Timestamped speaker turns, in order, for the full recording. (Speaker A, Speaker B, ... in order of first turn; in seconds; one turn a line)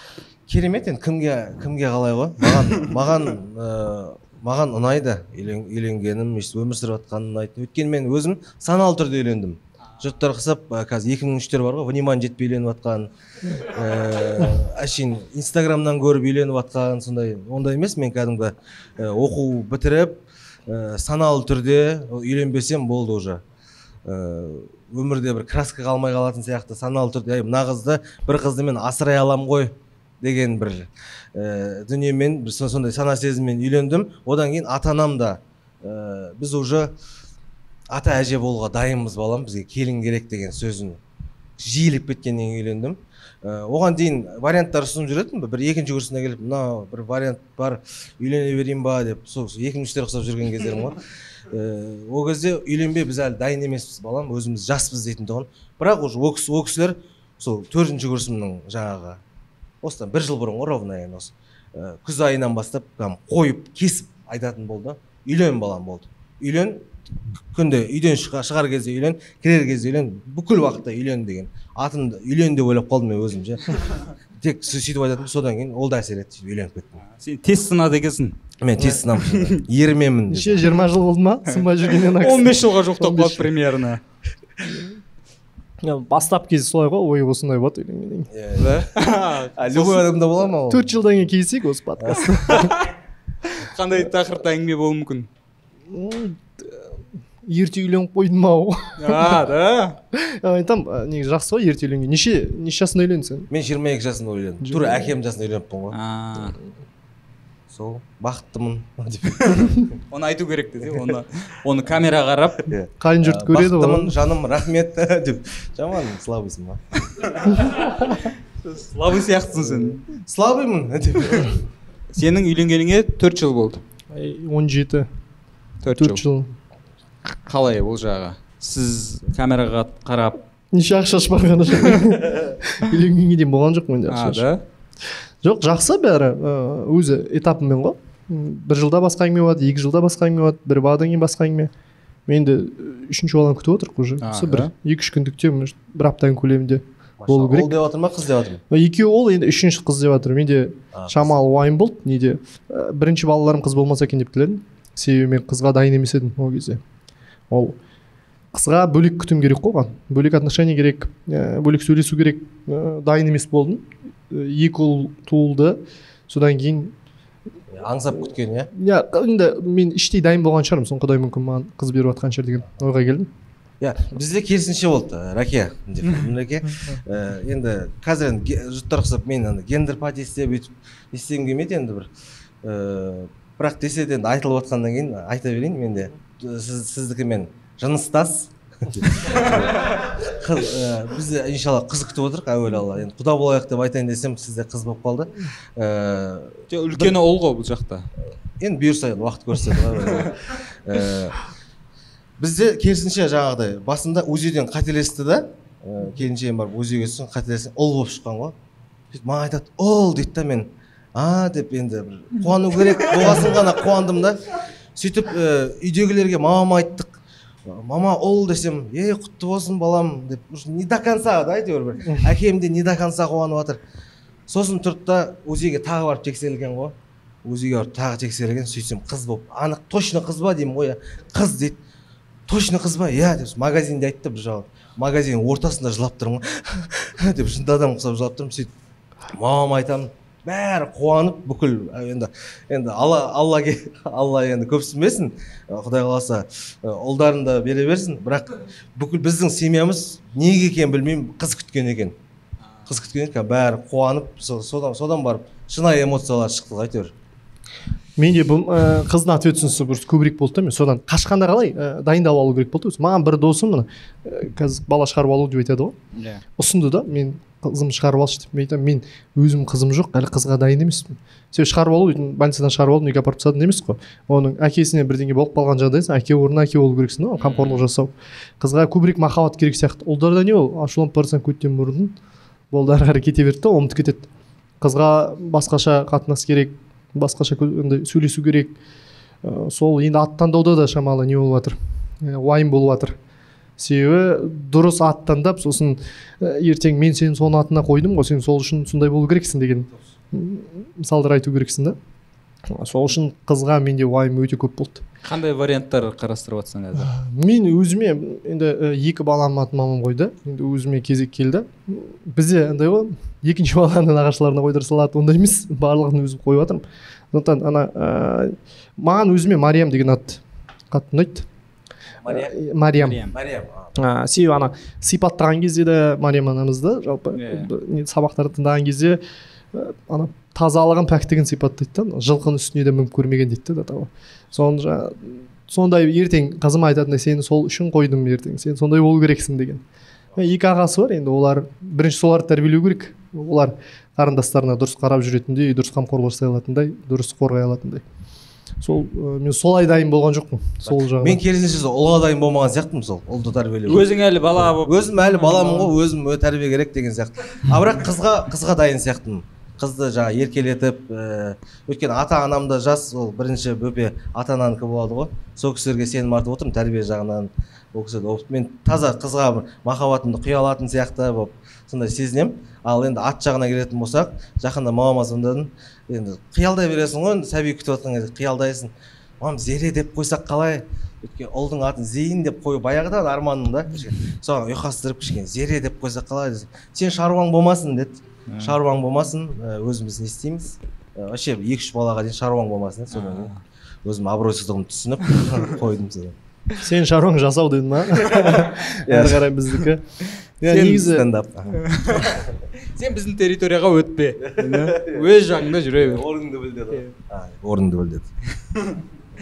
Speaker A: 0.5-13.1
Speaker A: 13.6-23.4
Speaker A: 24.1-36.9
Speaker A: 37.9-41.0
Speaker A: 41.6-51.0
Speaker A: 51.5-59.2
Speaker A: 59.8-66.9
Speaker A: 67.5-73.8
Speaker A: 74.4-77.0
Speaker B: 77.1-79.6
Speaker A: 78.6-80.7
Speaker C: 80.3-83.5
Speaker B: 81.5-84.0
Speaker C: 84.7-84.9
Speaker C: 85.8-88.3
Speaker A: 88.3-88.8
Speaker B: 88.6-90.1
Speaker A: 89.6-90.9
Speaker C: 90.7-92.7
Speaker A: 92.0-92.3
Speaker B: 92.5-92.9
Speaker B: 93.5-95.3
Speaker C: 95.9-96.9
Speaker C: 97.4-99.5
Speaker B: 99.0-100.0
Speaker C: 100.1-103.5
Speaker A: 103.5-106.0
Speaker C: 104.6-105.1
Speaker B: 105.9-106.6
Speaker A: 107.7-109.9
Speaker B: 110.1-112.7
Speaker A: 112.6-116.8
Speaker C: 113.0-114.2
Speaker B: 117.3-117.9
Speaker B: 118.6-120.0
Speaker A: 119.6-121.5
Speaker B: 122.1-123.8
Speaker C: 124.1-125.1
Speaker B: 125.8-126.2
Speaker C: 126.0-126.5
Speaker B: 127.5-130.4
Speaker C: 130.7-134.5
Speaker B: 134.1-134.6
Speaker C: 135.4-141.7
Speaker C: 142.3-147.8
Speaker B: 144.2-144.7
Speaker A: 147.2-148.6
Speaker C: 148.7-156.8
Speaker A: 150.9-151.3
Speaker C: 157.5-157.8
Speaker C: 158.5-166.9
Speaker A: 167.7-168.7
Speaker C: 168.7-173.3
Speaker A: 173.8-182.1
Speaker A: 182.6-197.2
Speaker B: 196.7-198.1
Speaker A: 198.6-201.4
Speaker A: 202.4-208.6
Speaker A: 209.1-214.4
Speaker A: 215.0-217.1
Speaker A: 217.7-223.8
Speaker A: 224.5-231.8
Speaker A: 232.5-238.7
Speaker A: 239.3-252.2
Speaker A: 252.9-257.1
Speaker C: 258.2-265.9
Speaker B: 266.1-266.4
Speaker C: 266.6-282.1
Speaker B: 277.4-277.9
Speaker C: 282.7-284.3
Speaker C: 284.8-288.8
Speaker C: 289.4-293.2
Speaker C: 293.8-302.0
Speaker C: 302.7-305.0
Speaker B: 305.2-307.1
Speaker C: 307.0-321.5
Speaker A: 322.2-322.5
Speaker C: 322.3-323.3
Speaker B: 323.0-323.3
Speaker A: 323.3-323.9
Speaker C: 324.0-329.2
Speaker B: 327.4-327.7
Speaker C: 329.7-339.8
Speaker C: 340.4-348.0
Speaker C: 348.8-351.4
Speaker A: 350.9-354.1
Speaker B: 353.9-355.9
Speaker A: 354.7-393.5
Speaker B: 388.5-388.8
Speaker B: 393.1-393.6
Speaker A: 394.1-396.4
Speaker C: 396.8-400.1
Speaker A: 399.1-399.4
Speaker A: 400.6-402.3
Speaker C: 400.7-401.3
Speaker B: 401.7-402.4
Speaker B: 403.0-406.2
Speaker A: 404.4-408.3
Speaker B: 408.7-409.0